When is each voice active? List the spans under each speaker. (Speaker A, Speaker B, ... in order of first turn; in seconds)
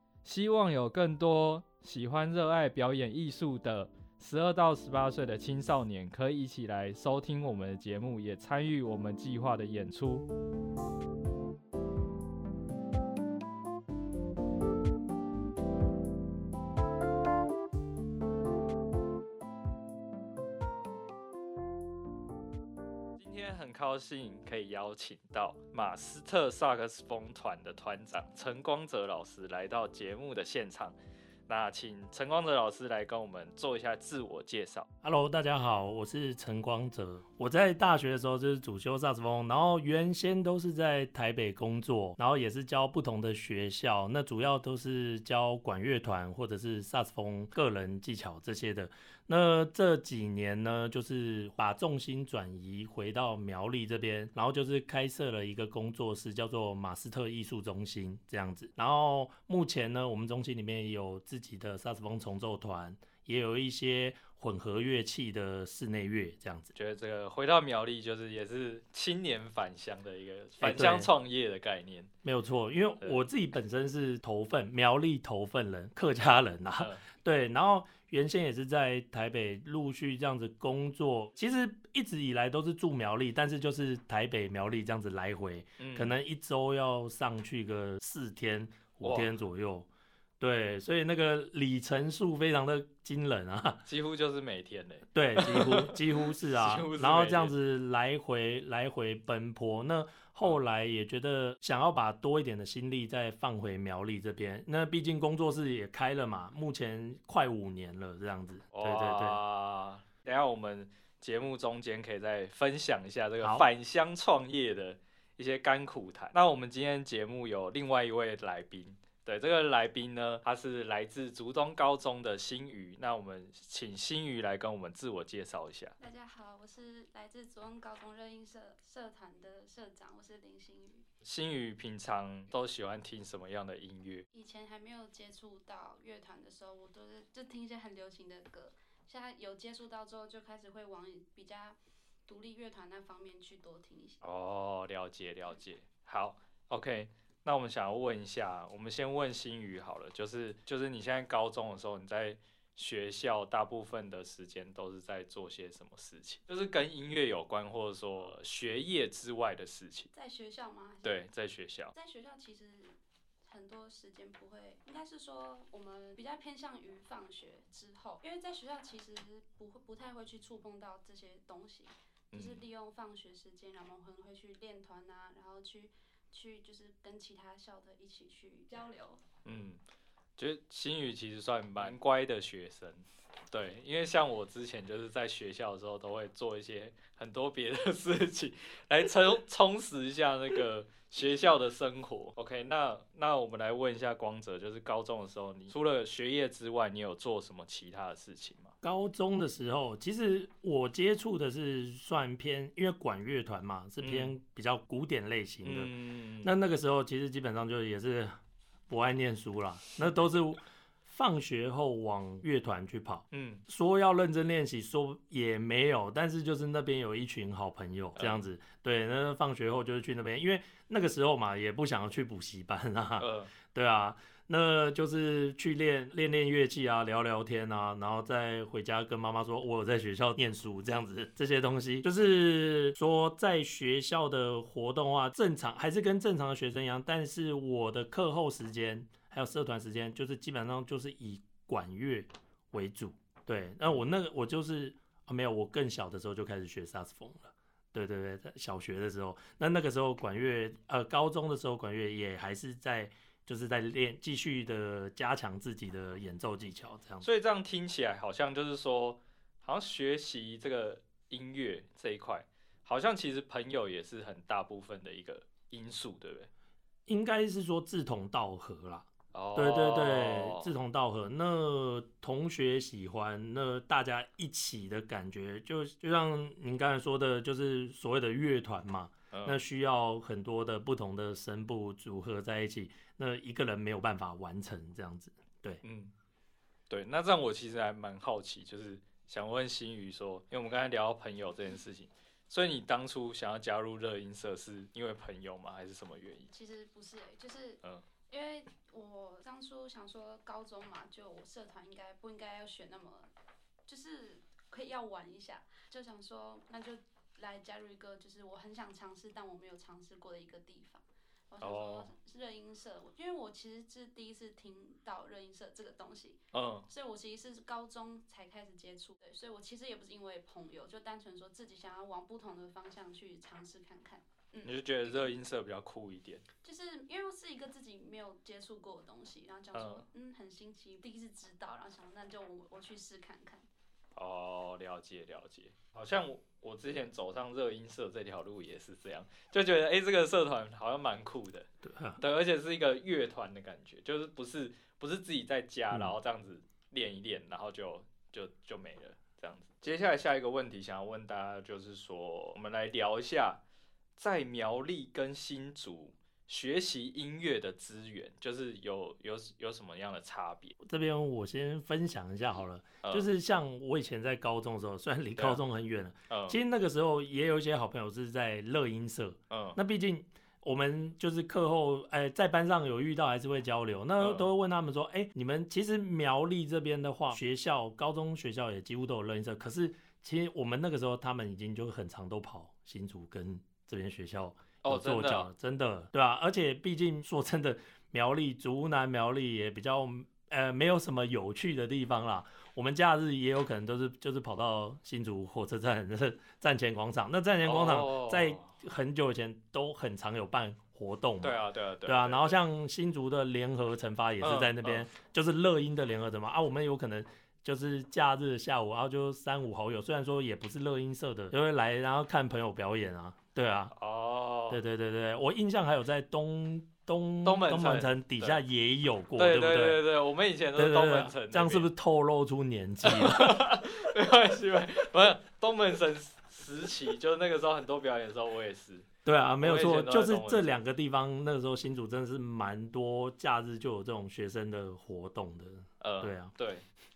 Speaker A: 0.2-10.3, 23.2-31.0, 31.5-34.9, 66.7-72.1, 85.8-86.2, 89.0-89.3, 93.8-97.5, 108.7-126.0, 131.2-134.2, 144.2-160.1, 161.0-161.9, 172.3-172.6, 179.4-179.8, 180.4-198.8, 204.0-204.3, 205.6-206.5, 213.3-213.6, 218.2-218.4, 223.2-223.5, 257.2-266.5, 269.3-270.7, 279.3-279.6, 285.8-286.1, 286.9-296.5, 311.6-312.1, 316.5-316.9, 324.6-326.4, 329.7-330.1, 334.2-341.7, 342.2-353.6, 354.2-360.8, 365.4-365.6, 366.3-366.6, 369.5-369.8, 374.2-374.5, 384.8-385.5, 397.6-398.7, 401.4-402.6, 404.4-405.1, 413.9-414.8, 417.4-418.6, 419.4-421.9, 423.0-429.1, 429.6-430.8, 436.0-436.9
Speaker B: 35.0-66.7, 70.6-71.1, 72.2-89.9, 90.4-93.8, 95.2-109.4, 113.4-113.7, 198.8-205.9, 206.4-257.2, 267.1-285.8, 341.8-342.2, 360.8-413.9, 414.7-420.0, 420.8-423.9, 429.2-436.5
Speaker C: 126.0-131.1, 134.3-144.2, 160.1-161.3, 161.9-179.2, 296.5-303.3, 303.9-325.3, 326.6-333.7